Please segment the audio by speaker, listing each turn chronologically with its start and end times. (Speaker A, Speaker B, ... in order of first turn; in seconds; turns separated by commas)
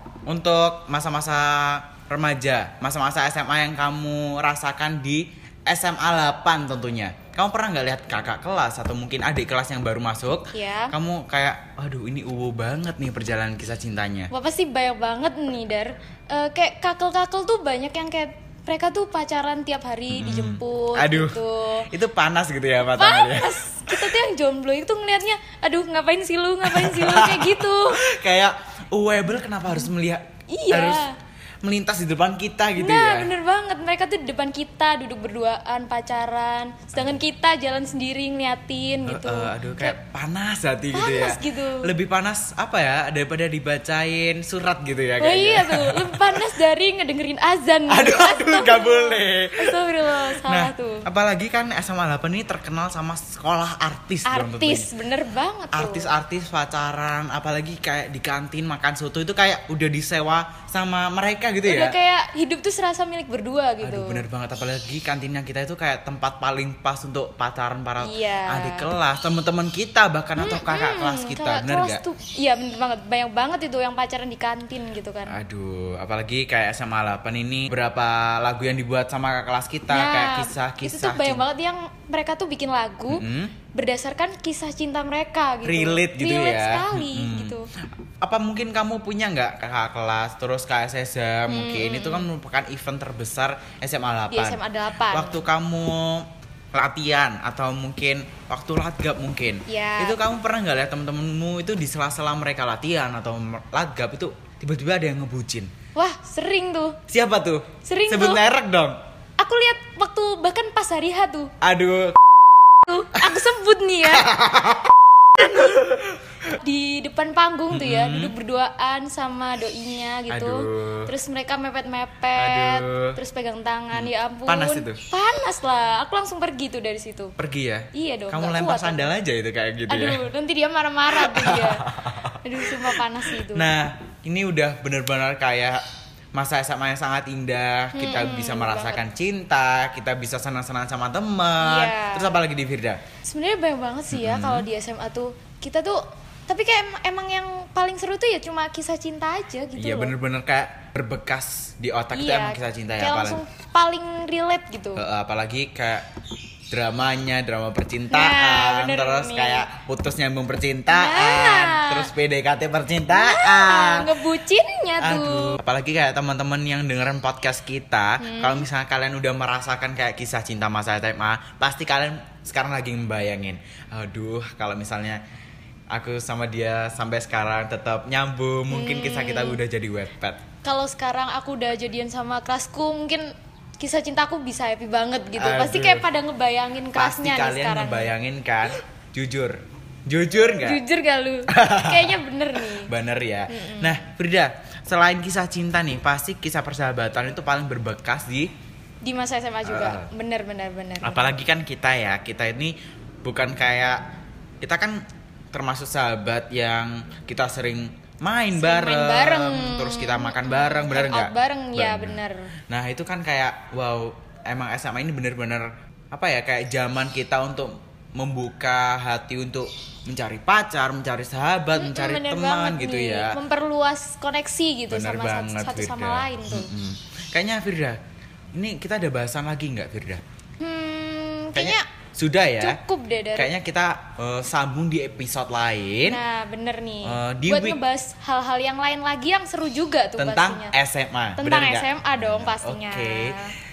Speaker A: 0.3-14.3, Speaker B: 10.5-10.9, Speaker B: 14.3-21.9, Speaker A: 20.1-24.1, Speaker B: 22.9-28.0, Speaker A: 26.6-31.1, Speaker B: 30.5-31.1, Speaker A: 31.6-33.3, Speaker B: 32.8-40.0, Speaker A: 39.1-46.6, Speaker B: 40.9-41.9, Speaker B: 45.2-51.0, Speaker A: 47.9-54.9, Speaker B: 54.3-56.1, Speaker A: 55.7-62.0, Speaker B: 61.6-64.2, Speaker A: 63.8-72.0, Speaker B: 68.0-68.9, Speaker B: 70.4-75.4, Speaker A: 75.3-81.5, Speaker B: 79.9-87.7, Speaker A: 83.1-83.5, Speaker A: 85.7-87.6, Speaker A: 88.2-105.7, Speaker B: 91.5-92.3, Speaker B: 94.3-95.4, Speaker B: 99.7-100.2, Speaker B: 106.0-107.0, Speaker A: 107.1-109.0, Speaker B: 107.9-108.4, Speaker B: 109.4-111.5, Speaker A: 111.6-112.2, Speaker B: 112.9-114.3, Speaker A: 113.2-113.4, Speaker A: 114.0-116.2, Speaker B: 116.5-127.3, Speaker A: 117.7-118.3, Speaker A: 120.3-121.1, Speaker A: 122.4-123.2, Speaker A: 123.9-125.0, Speaker A: 127.4-130.2, Speaker B: 127.9-129.1, Speaker B: 129.9-131.9, Speaker A: 131.1-135.8, Speaker B: 132.4-133.7, Speaker A: 136.3-143.0, Speaker B: 137.9-139.0, Speaker B: 141.6-142.4, Speaker B: 143.2-150.2, Speaker A: 144.1-144.7, Speaker A: 149.8-153.4, Speaker B: 152.1-155.0, Speaker A: 155.0-156.1, Speaker A: 156.7-164.1, Speaker B: 158.1-159.7, Speaker B: 160.9-162.1, Speaker B: 163.1-165.6, Speaker A: 165.0-175.2, Speaker B: 168.2-168.7, Speaker A: 175.9-180.4, Speaker B: 178.7-179.6, Speaker B: 180.6-183.2, Speaker B: 183.8-188.1, Speaker A: 185.4-186.1, Speaker A: 186.9-190.8, Speaker B: 190.4-192.9, Speaker A: 191.5-198.5, Speaker B: 193.5-194.0, Speaker B: 199.0-201.3, Speaker A: 199.7-200.1, Speaker A: 201.0-204.0, Speaker A: 204.6-223.4, Speaker B: 208.6-212.5, Speaker B: 221.7-226.7, Speaker A: 224.9-228.0, Speaker A: 228.5-230.2, Speaker B: 230.6-231.8, Speaker A: 231.5-232.8, Speaker B: 232.6-233.5, Speaker A: 233.3-236.2, Speaker B: 236.1-240.8, Speaker A: 237.1-237.8, Speaker A: 240.2-243.4, Speaker B: 241.4-243.5